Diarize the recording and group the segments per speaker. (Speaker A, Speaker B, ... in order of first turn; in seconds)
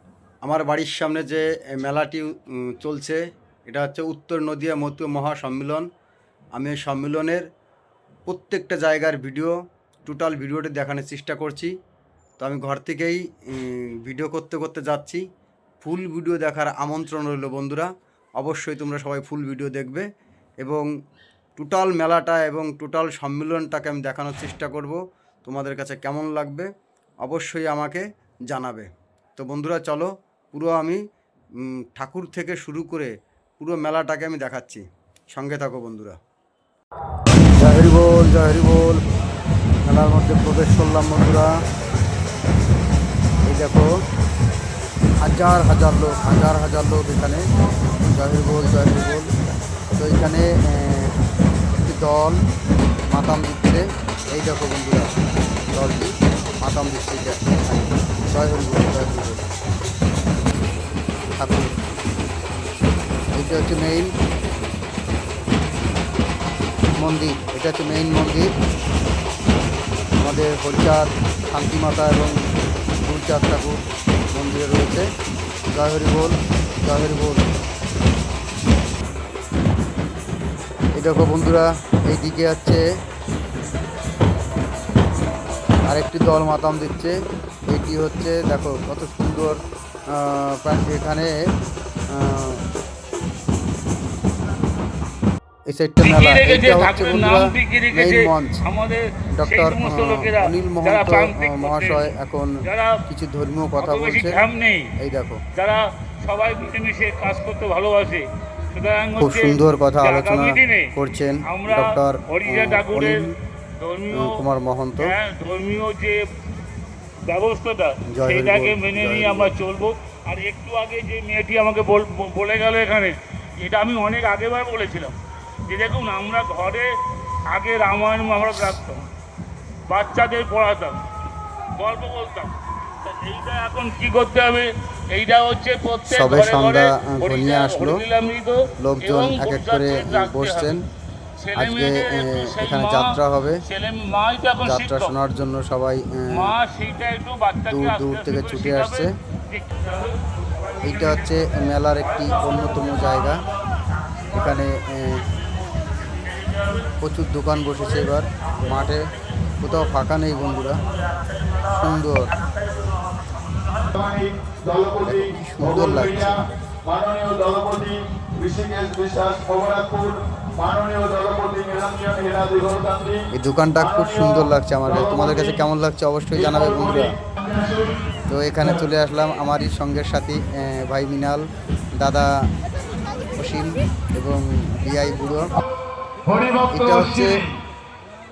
Speaker A: 0.4-5.9, 6.5-7.5, 8.3-9.5, 10.1-11.7, 12.4-15.2, 15.8-20.1, 21.6-26.7, 27.2-31.0, 31.6-36.1, 37.5-39.0, 39.8-41.5, 43.5-43.9, 45.2-47.4, 48.0-49.3, 49.9-51.1, 51.8-52.4, 53.1-53.8, 54.3-55.1, 55.7-59.5, 61.4-61.7, 63.3-64.1, 67.0-68.5, 70.2-72.4, 73.0-73.8, 74.3-75.1, 75.7-77.5, 81.0-82.8, 85.9-87.1, 87.7-89.6, 90.1-91.3, 92.1-92.6, 95.7-98.6, 99.3-102.5, 103.1-104.5, 105.0-105.4, 109.2-113.3, 114.1-115.1, 118.1-119.5, 136.1-138.0, 138.8-140.8, 141.6-143.6, 144.6-146.5, 147.7-149.1, 150.8-153.4, 154.3-155.2, 157.0-159.1, 159.6-160.8, 161.7-162.3, 165.0-166.4, 173.3-177.1, 178.3-181.4, 182.0-182.3, 183.3-185.5, 186.7-187.4
Speaker B: 96.0-102.1, 102.7-103.0, 103.8-104.9, 105.5-113.2, 113.8-114.4, 115.0-116.2, 117.2-126.9, 127.5-129.1, 129.9-131.0, 131.8-140.8, 141.4-145.1, 146.3-153.5, 156.1-156.9, 158.8-163.9
Speaker C: 163.9-166.3, 166.8-173.2, 176.7-177.9, 186.3-186.7